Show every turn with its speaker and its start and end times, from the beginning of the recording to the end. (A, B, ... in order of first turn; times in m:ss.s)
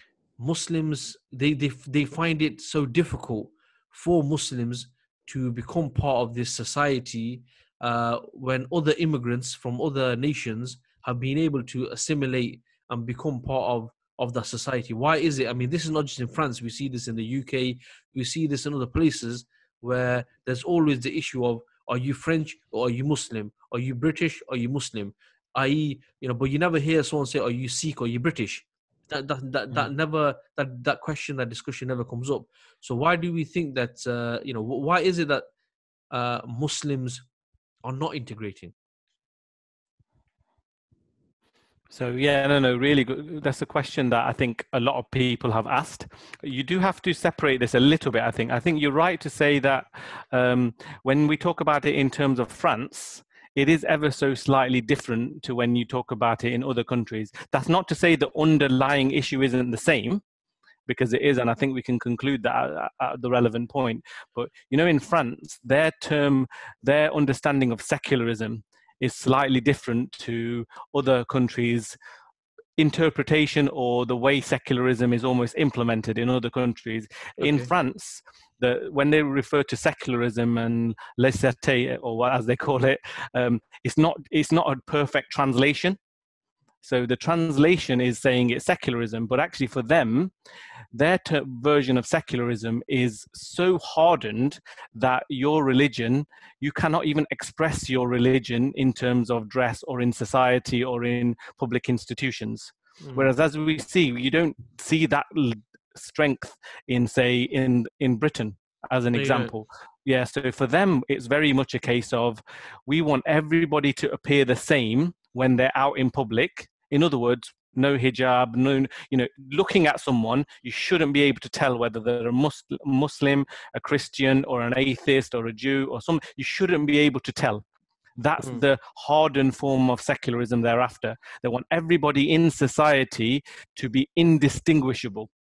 0:00.4-0:35.5 A
0:36.1-0:37.2 A
0:37.8-0:38.7 A
0:41.9-1:00.2 B
1:00.9-1:12.0 B
1:12.8-1:26.0 B
1:17.4-1:17.7 A
1:26.8-1:30.3 B
1:30.9-2:07.6 B
1:43.0-1:43.3 A
1:49.1-1:49.5 A
2:08.2-2:15.3 B
2:08.4-2:08.7 A